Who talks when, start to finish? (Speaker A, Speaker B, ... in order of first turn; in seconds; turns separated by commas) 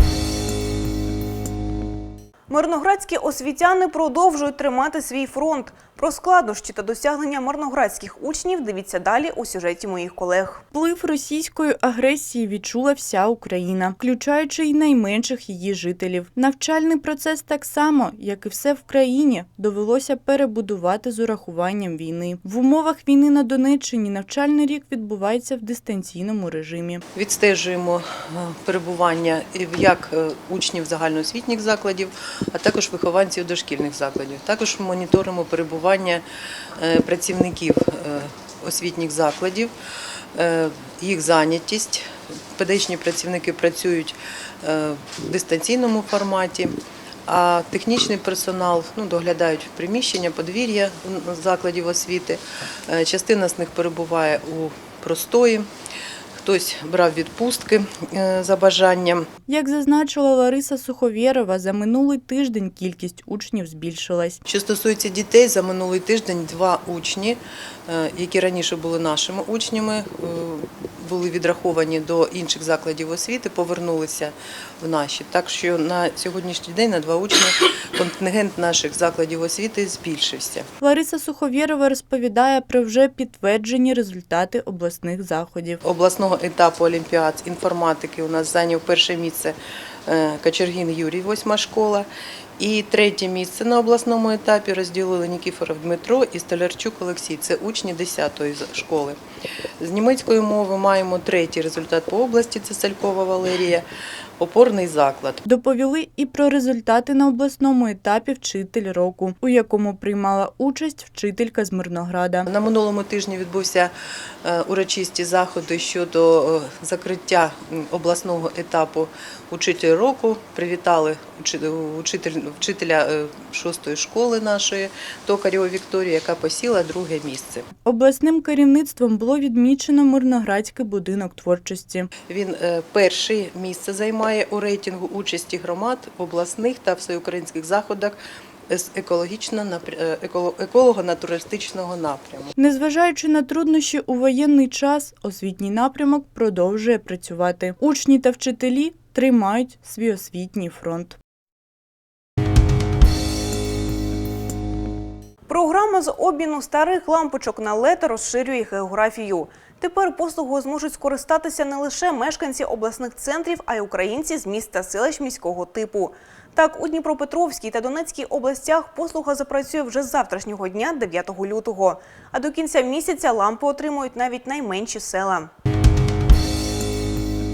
Speaker A: 2.5-10.6, Speaker B: 10.7-27.0, Speaker C: 27.1-36.2, Speaker C: 36.8-39.7, Speaker C: 40.3-55.7, Speaker C: 56.4-59.3, Speaker B: 59.5-64.4, Speaker C: 64.5-80.7, Speaker B: 80.8-85.8, Speaker C: 85.8-92.1, Speaker C: 92.6-99.2, Speaker C: 99.8-103.8, Speaker C: 104.4-105.4, Speaker B: 105.5-112.5, Speaker C: 112.5-113.9, Speaker C: 114.4-127.7, Speaker B: 127.8-132.1, Speaker C: 132.2-138.2, Speaker C: 138.7-142.5, Speaker B: 142.6-151.2, Speaker A: 155.5-175.5